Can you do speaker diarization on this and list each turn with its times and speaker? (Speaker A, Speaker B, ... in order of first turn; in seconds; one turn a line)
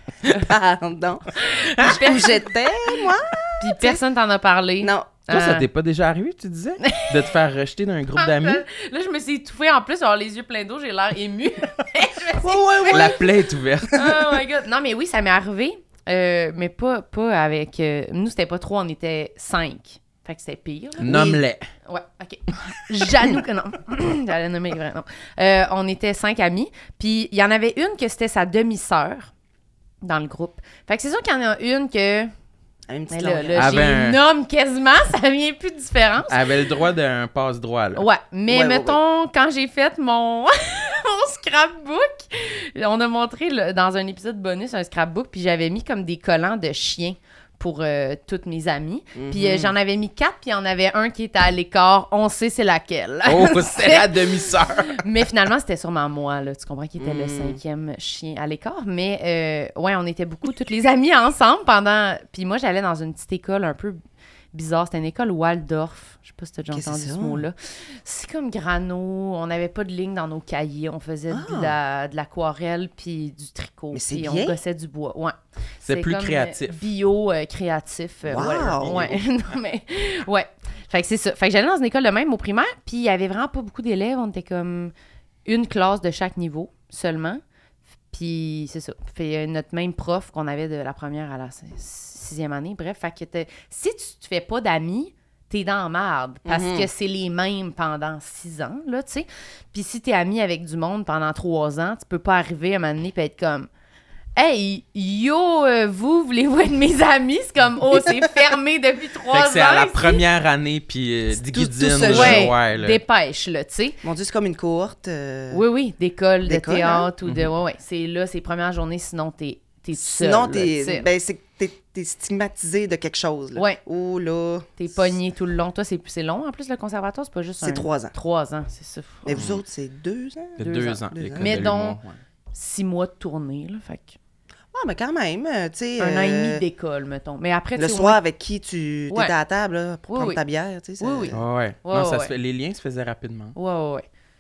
Speaker A: 0.2-4.0
Speaker B: 1.4-2.4
Speaker B: 3.6-5.7
Speaker A: 4.8-5.2
Speaker C: 5.3-8.6
Speaker B: 6.8-7.2
Speaker B: 8.2-13.2
Speaker A: 12.4-13.3
Speaker C: 12.9-14.1
Speaker B: 13.9-29.3
Speaker C: 21.0-21.7
Speaker B: 30.0-32.3
Speaker A: 32.9-33.8
Speaker B: 33.1-36.4
Speaker C: 33.6-34.2
Speaker C: 36.3-38.0
Speaker B: 38.0-64.0
Speaker A: 38.5-39.0
Speaker A: 49.1-49.7
Speaker C: 53.3-55.0
Speaker A: 57.0-57.6
Speaker B: 64.5-75.4
Speaker A: 66.7-67.5
Speaker A: 71.3-71.8
Speaker A: 73.9-74.6
Speaker C: 75.8-76.8
Speaker B: 75.9-84.9
Speaker A: 78.3-79.2
Speaker B: 85.5-87.4
Speaker B: 88.1-103.7
Speaker A: 96.5-96.9
Speaker B: 104.4-110.2
Speaker C: 109.3-113.0
Speaker A: 111.3-112.5
Speaker B: 112.1-114.0
Speaker A: 114.0-115.6
Speaker B: 115.5-121.1
Speaker A: 116.5-117.1
Speaker A: 120.0-125.2
Speaker B: 123.5-123.8
Speaker B: 124.8-129.4
Speaker A: 127.6-128.2
Speaker A: 129.2-131.7
Speaker C: 129.3-129.6
Speaker C: 130.6-132.2
Speaker B: 130.6-132.0
Speaker B: 132.5-134.2
Speaker A: 134.7-136.6
Speaker B: 136.0-138.2
Speaker A: 137.8-141.4
Speaker B: 140.1-140.4
Speaker B: 141.0-142.3
Speaker C: 141.3-143.6
Speaker B: 143.6-144.1